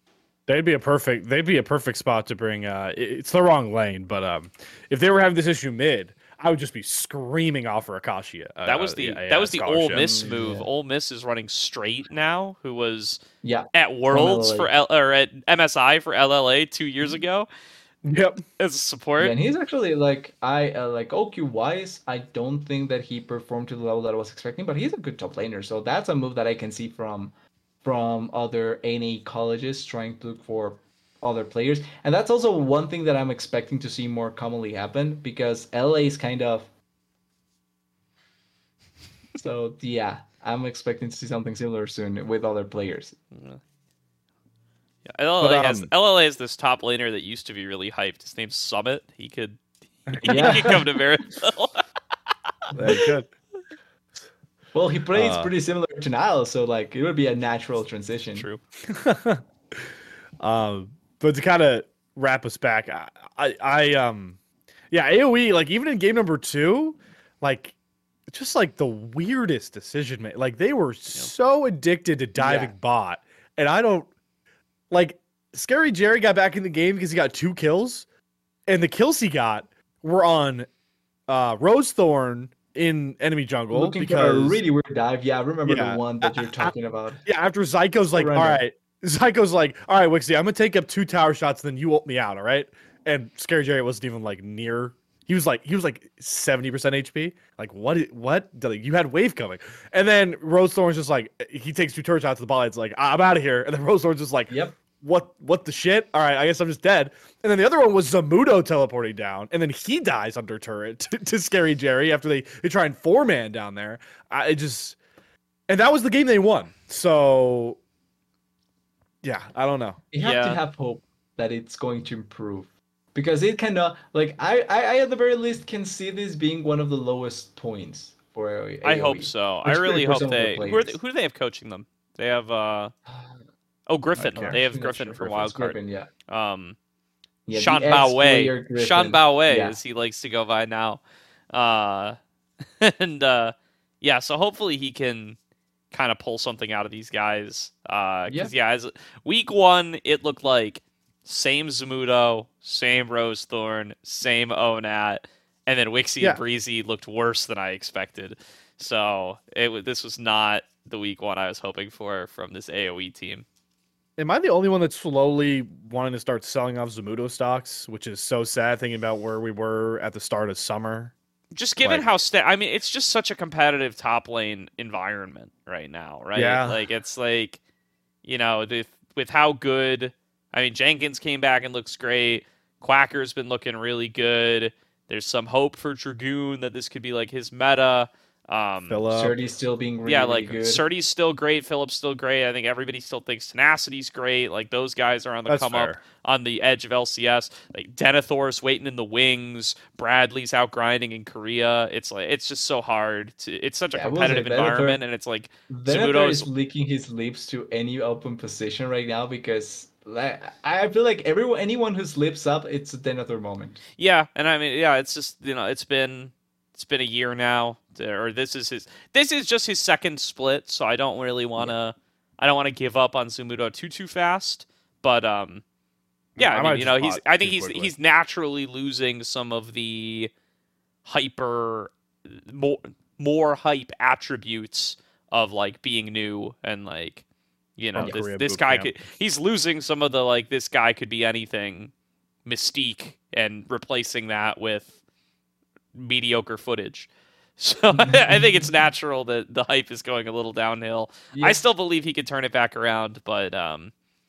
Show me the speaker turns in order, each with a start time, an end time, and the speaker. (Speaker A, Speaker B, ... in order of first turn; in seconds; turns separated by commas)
Speaker A: 0.5-10.0, Speaker B: 8.7-13.2, Speaker C: 9.9-10.7, Speaker C: 13.4-14.7, Speaker B: 13.7-17.5, Speaker A: 18.0-18.4, Speaker B: 18.6-19.4, Speaker C: 19.2-36.7, Speaker C: 39.4-43.2, Speaker B: 43.3-43.6, Speaker B: 45.1-51.8, Speaker A: 45.4-45.9, Speaker A: 50.1-50.8, Speaker C: 50.3-50.9, Speaker A: 52.7-53.3, Speaker C: 52.8-53.1, Speaker C: 54.7-58.5, Speaker A: 55.1-55.5, Speaker B: 58.4-58.6, Speaker A: 58.9-64.4, Speaker A: 64.9-67.8, Speaker A: 68.3-74.1, Speaker C: 72.4-72.7, Speaker A: 74.9-78.1, Speaker A: 78.7-80.7, Speaker A: 81.3-84.6, Speaker C: 83.7-87.2, Speaker A: 85.7-86.7, Speaker A: 87.3-115.0, Speaker C: 88.2-88.6, Speaker C: 104.5-104.8, Speaker A: 115.7-117.8, Speaker A: 119.2-120.0, Speaker C: 120.1-131.0, Speaker B: 120.2-120.6, Speaker B: 128.8-132.9, Speaker C: 133.1-133.4, Speaker B: 133.9-136.8, Speaker A: 134.2-134.6, Speaker C: 134.3-136.1, Speaker C: 137.5-139.8, Speaker B: 137.5-142.2, Speaker B: 142.8-145.4, Speaker B: 145.9-163.4, Speaker A: 164.2-171.1, Speaker B: 171.6-177.6, Speaker A: 176.3-176.8, Speaker B: 178.2-189.1, Speaker A: 188.9-189.3, Speaker C: 189.1-190.8, Speaker B: 190.1-206.5, Speaker A: 195.5-196.0, Speaker C: 203.9-205.0, Speaker C: 205.7-213.8, Speaker B: 214.0-225.6, Speaker A: 226.4-227.9, Speaker B: 226.4-230.3, Speaker B: 231.1-237.2, Speaker B: 237.8-241.9, Speaker A: 238.0-238.9, Speaker B: 242.5-244.9, Speaker B: 245.9-253.9, Speaker C: 248.0-248.4, Speaker C: 251.3-251.6